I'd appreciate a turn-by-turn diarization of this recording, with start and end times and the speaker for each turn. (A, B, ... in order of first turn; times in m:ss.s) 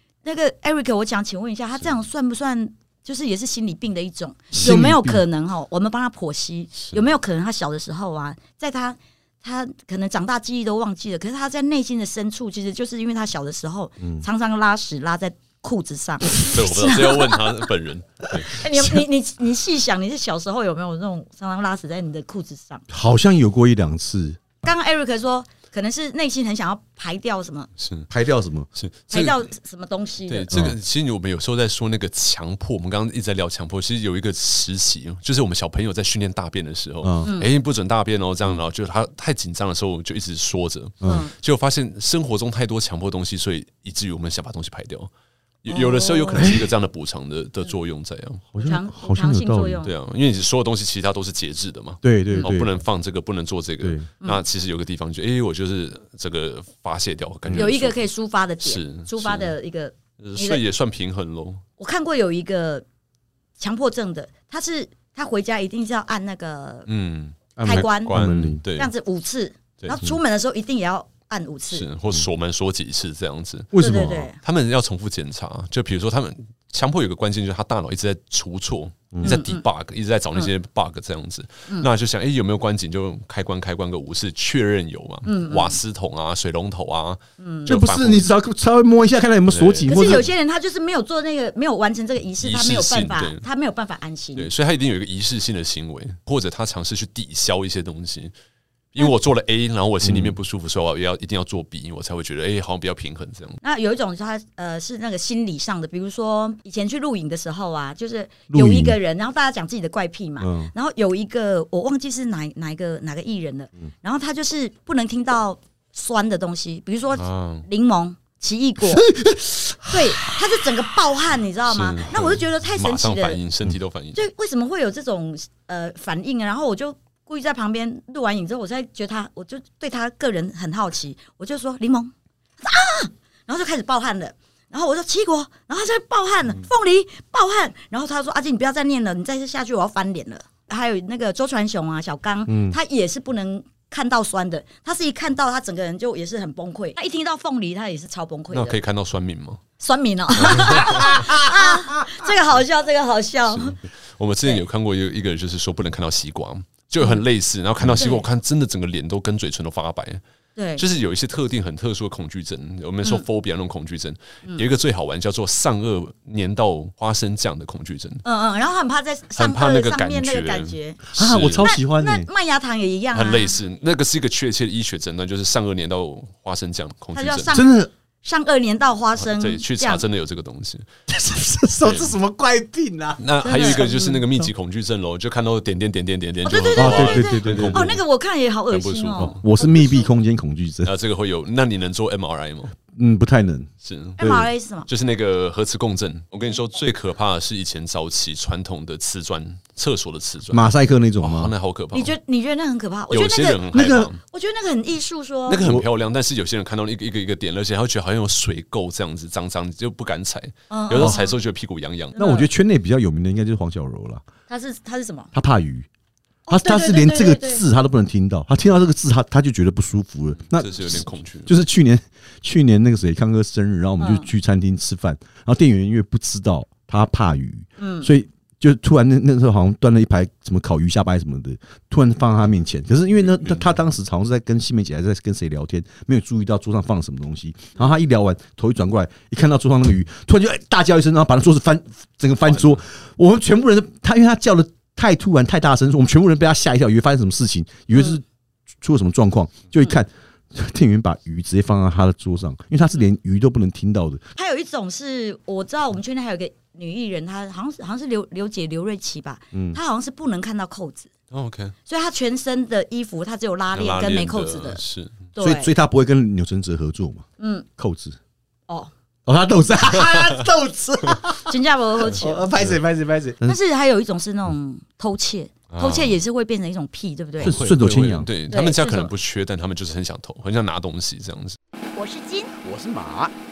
0:00.2-0:17.4 A
0:04.5-0:05.2 B
0:06.8-0:07.1 C
0:14.0-0:14.2 B
0:16.4-0:18.6 C
0:18.3-0:22.8 A
0:22.9-0:24.6 B
0:24.6-0:27.7 A
0:27.8-0:28.1 C
0:28.1-0:28.7 B
0:28.8-0:29.5 C
0:29.1-0:30.5 A
0:30.3-0:45.1 C
0:30.5-0:30.8 B
0:37.0-0:37.3 B
0:41.0-0:41.3 A
0:45.6-0:48.4 C
0:45.7-0:46.6 A
0:46.3-0:46.8 B
0:48.5-0:49.8 B
0:48.6-0:49.9 A
0:49.8-0:58.1 C
0:52.0-0:52.7 B
0:53.8-0:54.1 B
0:57.4-0:57.7 B
0:57.5-1:00.6 A
0:58.6-0:59.6 C
1:00.2-1:01.6 C
1:01.8-1:02.8 A
1:03.6-1:06.9 A
1:06.9-1:08.9 C
1:07.6-1:08.6 B
1:07.6-1:08.2 A
1:08.8-1:11.9 A
1:09.8-1:10.1 C
1:11.7-1:28.3 C
1:13.7-1:14.3 B
1:13.8-1:14.4 A
1:19.2-1:19.6 A
1:25.2-1:25.8 A
1:27.4-1:27.8 A
1:27.7-1:30.3 B
1:29.5-1:30.2 C
1:29.9-1:34.5 A
1:32.4-1:33.4 C
1:34.4-1:38.3 C
1:38.9-1:43.6 C
1:40.0-1:40.4 B
1:43.6-1:59.1 A
1:48.5-1:49.0 B
1:50.4-1:50.7 B
1:57.2-1:57.7 C
1:58.9-2:00.3 B
1:59.9-2:03.4 A
2:01.7-2:04.2 C
2:04.2-2:28.8 A
2:22.5-2:22.8 B
2:28.5-2:29.6 C
2:29.8-2:33.8 A
2:30.4-2:31.0 C
2:31.0-2:32.2 B
2:33.5-2:40.2 C
2:37.8-2:38.3 A
2:40.6-2:40.8 A
2:40.8-2:48.2 C
2:48.2-2:53.6 A
2:49.4-2:51.7 C
2:51.2-2:52.3 B
2:53.1-2:57.6 C
2:57.1-3:00.0 A
2:57.5-2:57.9 B
2:59.2-3:00.9 C
3:01.1-3:04.5 B
3:01.8-3:02.2 C
3:03.2-3:08.0 C
3:03.4-3:04.1 A
3:06.4-3:10.1 A
3:06.8-3:07.9 B
3:08.7-3:09.4 C
3:09.2-3:10.9 B
3:10.8-3:12.8 C
3:12.9-3:13.7 B
3:13.8-3:14.3 C
3:14.2-3:14.9 A
3:14.2-3:14.5 B
3:14.9-3:22.2 C
3:20.5-3:21.5 B
3:21.9-3:23.6 A
3:23.1-3:24.2 C
3:23.7-3:24.1 B
3:24.3-3:25.6 A
3:25.5-3:32.2 C
3:25.6-3:25.9 B
3:30.7-3:31.3 A
3:30.9-3:31.2 B
3:32.2-3:32.5 A
3:32.2-3:34.2 B
3:34.5-3:35.3 A
3:35.3-3:35.9 B
3:36.5-3:37.6 A
3:36.5-4:08.2 B
3:40.5-3:41.6 C
3:44.0-3:44.3 A
3:47.8-3:48.1 A
3:53.3-3:53.7 C
4:02.4-4:02.8 C
4:07.9-4:08.2 A
4:08.8-4:14.2 B
4:14.4-4:21.1 A
4:19.5-4:19.8 B
4:21.3-4:21.8 C
4:21.9-4:24.8 A
4:23.7-4:25.3 C
4:25.4-4:25.7 A
4:25.4-4:27.2 B
4:27.4-4:27.7 A
4:27.8-4:28.2 B
4:29.3-4:31.5 B
4:30.2-4:30.4 C
4:31.5-4:32.5 A
4:32.0-4:33.6 B
4:33.4-4:37.6 A
4:35.7-4:36.2 C
4:37.4-4:38.3 B
4:37.4-4:41.6 C
4:38.5-4:39.1 A
4:42.0-4:42.6 A
4:42.6-4:43.3 B